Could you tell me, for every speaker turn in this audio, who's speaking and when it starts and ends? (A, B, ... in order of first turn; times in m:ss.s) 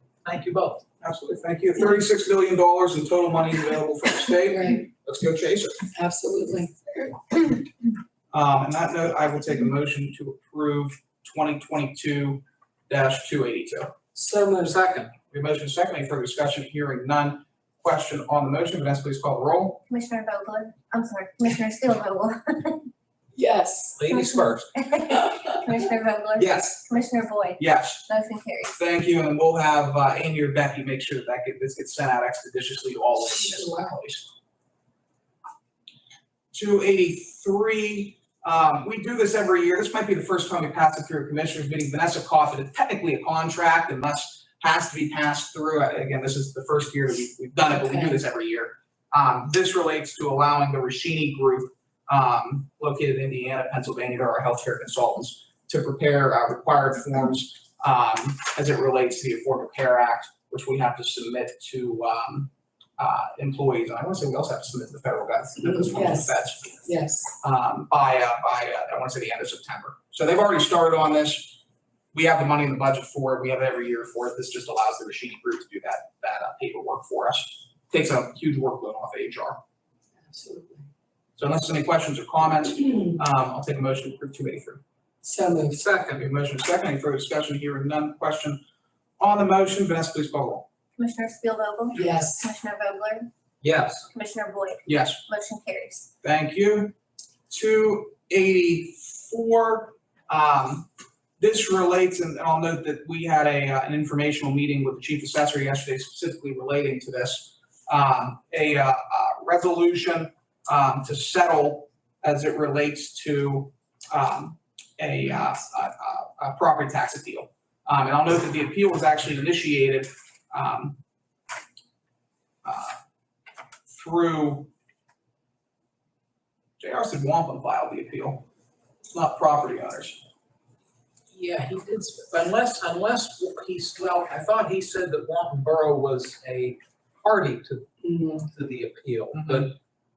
0:00.2-0:00.8 A
0:01.0-0:05.8 B
0:04.5-0:04.8 C
0:05.9-0:07.2 C
0:08.3-0:13.9 B
0:14.1-0:14.8 C
0:14.6-0:15.1 A
0:15.3-0:19.8 B
0:19.9-0:22.9 D
0:23.3-0:24.0 C
0:24.0-0:24.7 A
0:24.1-0:28.7 D
0:26.4-0:26.8 B
0:27.6-0:28.0 B
0:28.7-0:34.3 B
0:36.5-1:06.7 B
0:47.7-0:48.2 C
1:05.7-1:07.3 C
1:07.4-1:11.6 B
1:12.1-1:19.6 B
1:20.2-1:20.9 C
1:21.4-1:24.8 B
1:25.2-1:25.8 C
1:25.7-1:26.2 A
1:26.1-1:28.6 B
1:29.2-1:30.7 B
1:31.0-1:33.3 D
1:31.9-1:32.5 C
1:33.6-1:34.1 A
1:34.1-1:36.1 D
1:34.8-1:35.2 B
1:36.2-1:36.9 B
1:37.5-1:40.9 B
1:41.4-2:01.0 B
2:02.6-2:03.0 B
2:03.9-2:04.7 B
2:06.8-2:08.4 B
2:09.1-2:10.2 B
2:11.3-2:19.7 A
2:18.0-2:18.4 C
2:19.3-2:19.7 B